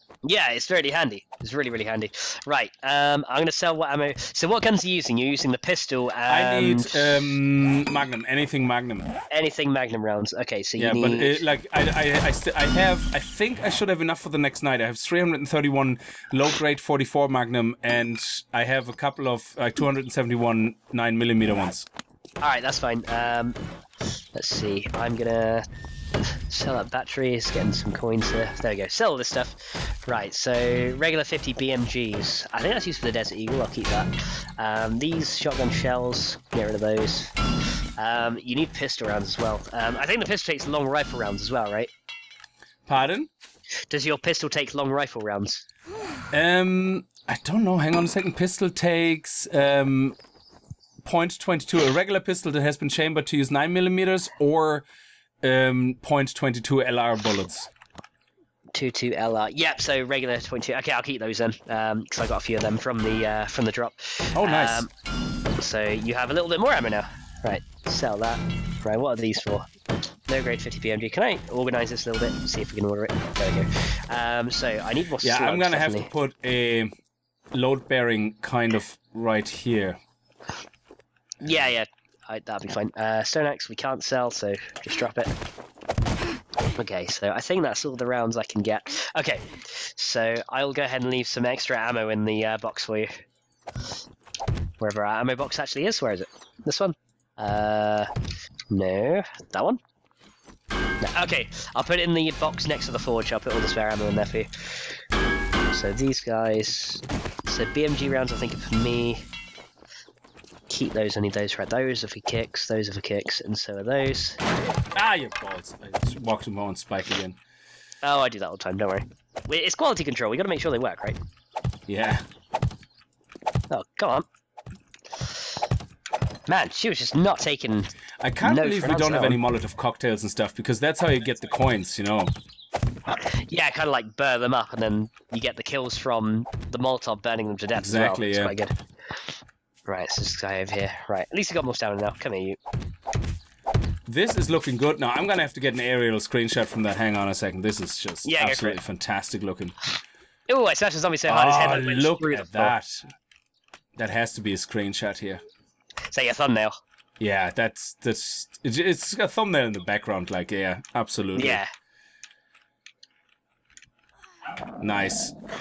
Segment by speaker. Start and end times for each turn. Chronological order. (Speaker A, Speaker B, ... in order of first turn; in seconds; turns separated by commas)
Speaker A: 0.2-7.1, Speaker B: 6.3-9.1, Speaker A: 9.3-11.4, Speaker B: 10.8-21.9, Speaker A: 22.4-23.6, Speaker A: 24.3-25.6, Speaker A: 26.5-37.3, Speaker A: 38.0-41.9, Speaker B: 42.9-43.3, Speaker A: 43.9-45.6, Speaker B: 46.3-50.2, Speaker B: 51.0-54.9, Speaker B: 55.4-57.7, Speaker A: 58.7-64.9, Speaker B: 64.3-64.8, Speaker A: 65.6-69.7, Speaker A: 70.3-76.1, Speaker B: 75.2-76.9, Speaker B: 77.5-80.0, Speaker B: 81.4-81.7, Speaker A: 81.4-85.3, Speaker A: 86.8-93.1, Speaker A: 94.8-98.1, Speaker A: 98.7-99.8, Speaker A: 101.0-105.0, Speaker A: 105.7-109.2, Speaker A: 110.7-114.4, Speaker B: 114.9-117.4, Speaker A: 118.0-121.2, Speaker B: 121.9-122.2, Speaker A: 123.7-124.2, Speaker A: 126.5-129.4, Speaker B: 128.2-132.3, Speaker A: 133.1-139.3, Speaker B: 137.8-138.5, Speaker A: 139.8-142.6, Speaker B: 144.1-149.7, Speaker A: 148.2-148.8, Speaker A: 150.5-152.7, Speaker B: 151.3-153.1, Speaker B: 153.9-155.4, Speaker A: 156.1-156.8, Speaker B: 157.2-161.6, Speaker A: 161.3-161.7, Speaker B: 164.8-165.3